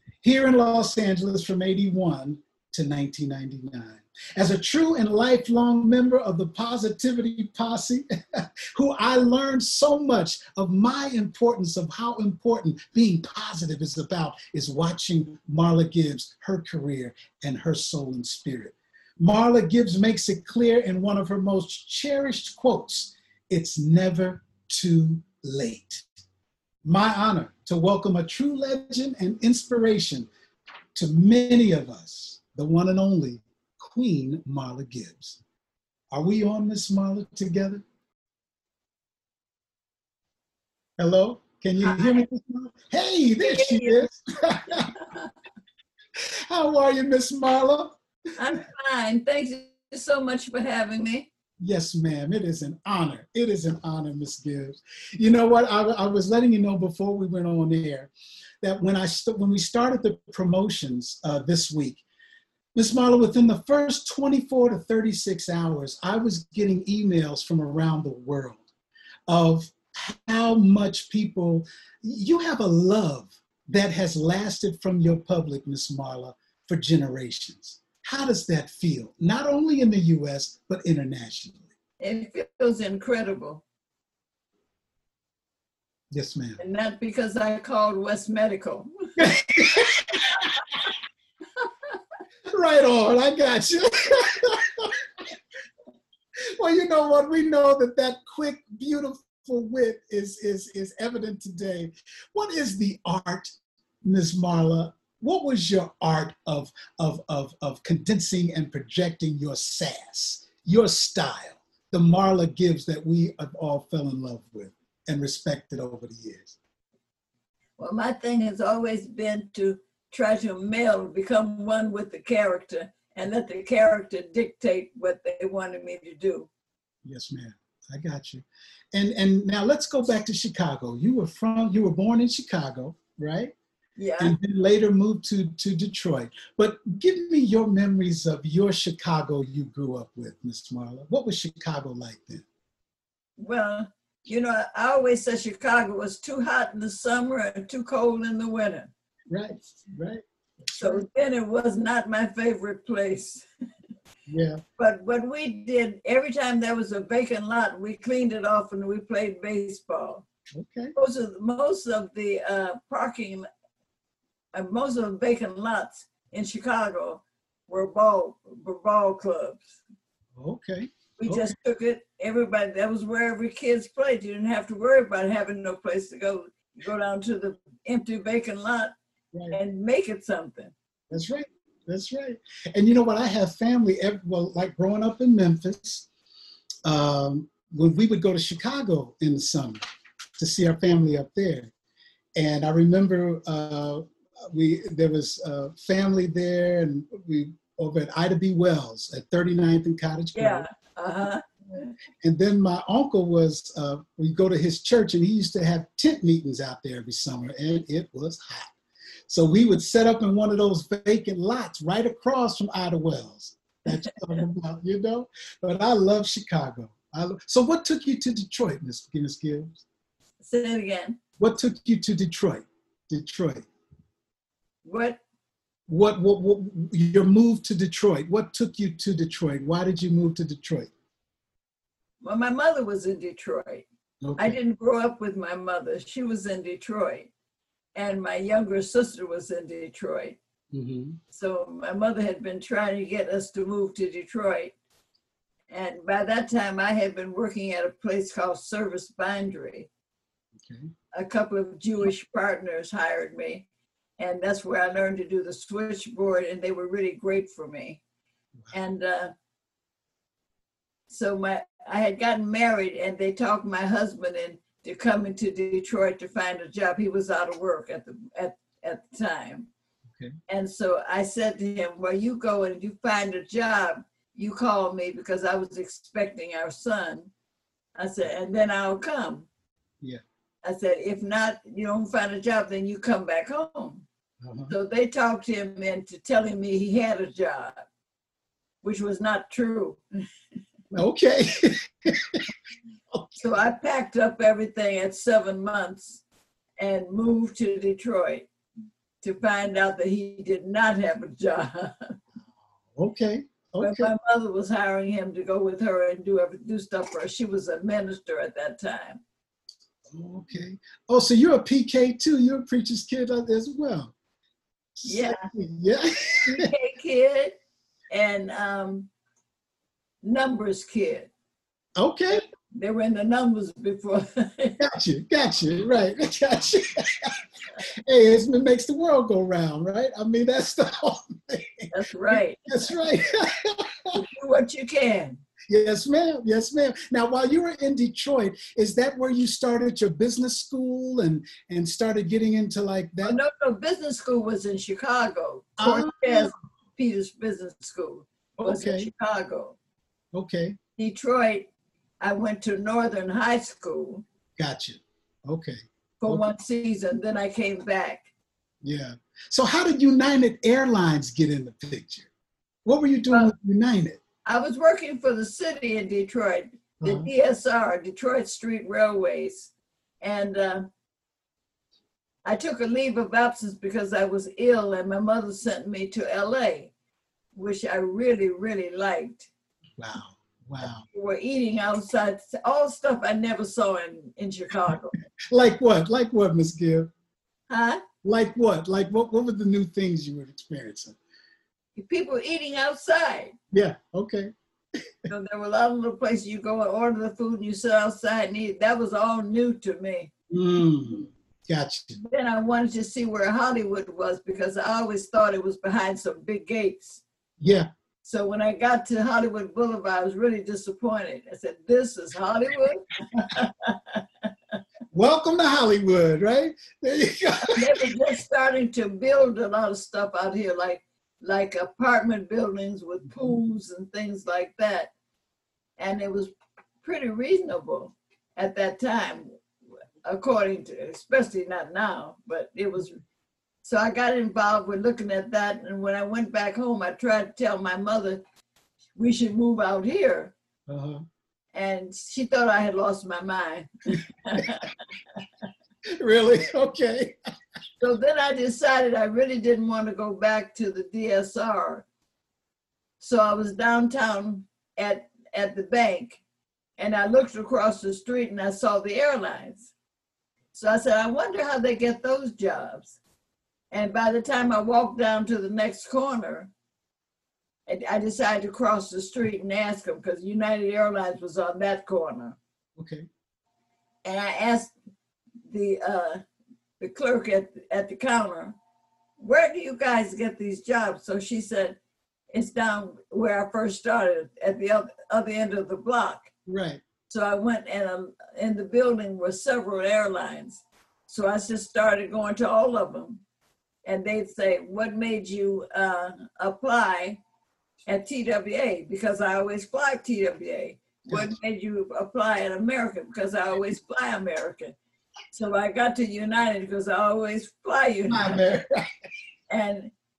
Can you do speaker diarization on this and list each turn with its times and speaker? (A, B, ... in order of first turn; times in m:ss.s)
0:00.2-0:26.1 A
0:26.8-0:30.3 A
0:30.9-0:35.4 A
0:36.1-0:37.8 A
0:41.0-0:44.9 A
0:41.8-0:42.2 B
0:43.4-0:44.1 B
0:44.7-0:45.3 B
0:46.2-0:48.0 A
0:48.4-0:51.3 B
0:51.6-0:58.1 A
0:58.6-1:02.0 A
1:02.7-1:08.6 A
1:09.3-1:21.7 A
1:22.0-1:23.6 B
1:26.1-1:26.6 A
1:26.6-1:29.3 B
1:29.2-1:30.5 A
1:32.5-1:35.4 A
1:36.6-1:56.6 A
1:57.8-2:06.5 B
2:07.0-2:13.5 A
2:14.0-2:14.4 B
2:14.2-2:22.4 A
2:23.4-2:28.9 B
2:29.3-2:31.0 A
2:30.7-2:33.4 B
2:34.3-2:34.6 A
2:34.8-2:40.2 B
2:40.5-2:40.9 A
2:40.9-2:43.5 B
2:44.5-2:49.8 B
2:50.4-2:51.5 A
2:51.2-2:58.9 B
2:59.3-2:59.6 A
2:59.5-3:00.7 B
3:01.1-3:06.1 A
3:06.8-3:09.8 A
3:10.4-3:11.7 A
3:12.4-3:20.7 A
3:20.3-3:21.9 B
3:22.2-3:28.7 A
3:29.3-3:39.8 A
3:40.4-3:41.2 B
3:41.4-3:43.6 A
3:44.8-3:45.2 B
3:45.9-3:50.9 A
3:52.2-3:53.8 B
3:54.2-3:54.6 A
3:54.4-3:57.3 B
3:57.9-4:00.4 B
4:00.7-4:01.2 A
4:01.3-4:04.7 B
4:05.7-4:09.9 B
4:10.6-4:10.9 A
4:11.1-4:13.6 B
4:14.2-4:18.0 B
4:18.7-4:19.3 B
4:21.1-4:29.7 B
4:30.5-4:37.3 B
4:38.0-4:39.5 B
4:40.6-4:44.0 B
4:44.4-4:44.7 A
4:44.7-4:47.8 B
4:48.8-4:50.0 B
4:50.9-4:52.5 A
4:53.4-4:56.2 B
4:56.8-4:58.5 B
4:59.2-5:02.1 B
5:02.9-5:04.1 A
5:03.8-5:09.2 B
5:10.1-5:14.1 A
5:15.0-5:16.7 A
5:15.0-5:15.5 B
5:16.5-5:17.6 B
5:18.1-5:19.1 B
5:20.2-5:21.3 B
5:22.0-5:22.4 A
5:22.7-5:24.8 B
5:24.8-5:27.4 A
5:28.0-5:34.2 A
5:31.9-5:32.9 B
5:34.1-5:35.4 B
5:35.7-5:43.4 A
5:43.2-5:49.8 B
5:45.8-5:46.5 A
5:48.6-5:49.1 A
5:50.3-5:50.8 A
5:51.0-5:51.7 B
5:52.2-5:54.2 B
5:54.6-5:56.5 A
5:56.2-5:58.3 B
5:58.8-6:02.3 A
6:02.8-6:04.2 A
6:04.4-6:09.7 B
6:07.0-6:07.3 A
6:10.2-6:10.8 B
6:12.4-6:16.9 B
6:17.5-6:19.5 B
6:20.0-6:21.0 A
6:21.1-6:25.1 B
6:25.5-6:27.1 A
6:27.7-6:28.0 B
6:28.2-6:31.2 A
6:32.0-6:33.6 B
6:33.7-6:34.5 A
6:35.3-6:40.3 B
6:40.5-6:42.2 A
6:42.2-6:47.2 B
6:47.6-6:47.9 A
6:48.2-6:54.2 B
6:55.1-6:58.1 A
6:57.8-7:05.1 B
7:03.3-7:03.6 A
7:06.0-7:09.5 B
7:10.2-7:13.2 B
7:13.8-7:18.4 B
7:19.2-7:20.5 B
7:20.9-7:21.2 A
7:21.7-7:25.0 B
7:26.2-7:27.4 A
7:28.0-7:32.0 B
7:33.2-7:36.4 B
7:37.0-7:39.9 B
7:40.7-7:43.2 B
7:43.9-7:46.7 B
7:47.9-7:52.6 B
7:53.0-7:53.3 A
7:54.2-7:54.9 B
7:55.7-7:56.4 B
7:57.0-7:58.8 B
7:59.4-8:02.0 B
8:02.5-8:06.5 B
8:06.7-8:07.0 A
8:07.3-8:13.4 B
8:14.0-8:17.4 B
8:18.1-8:25.0 B
8:21.3-8:21.5 A
8:25.5-8:28.6 B
8:28.3-8:29.0 A
8:29.7-8:30.1 B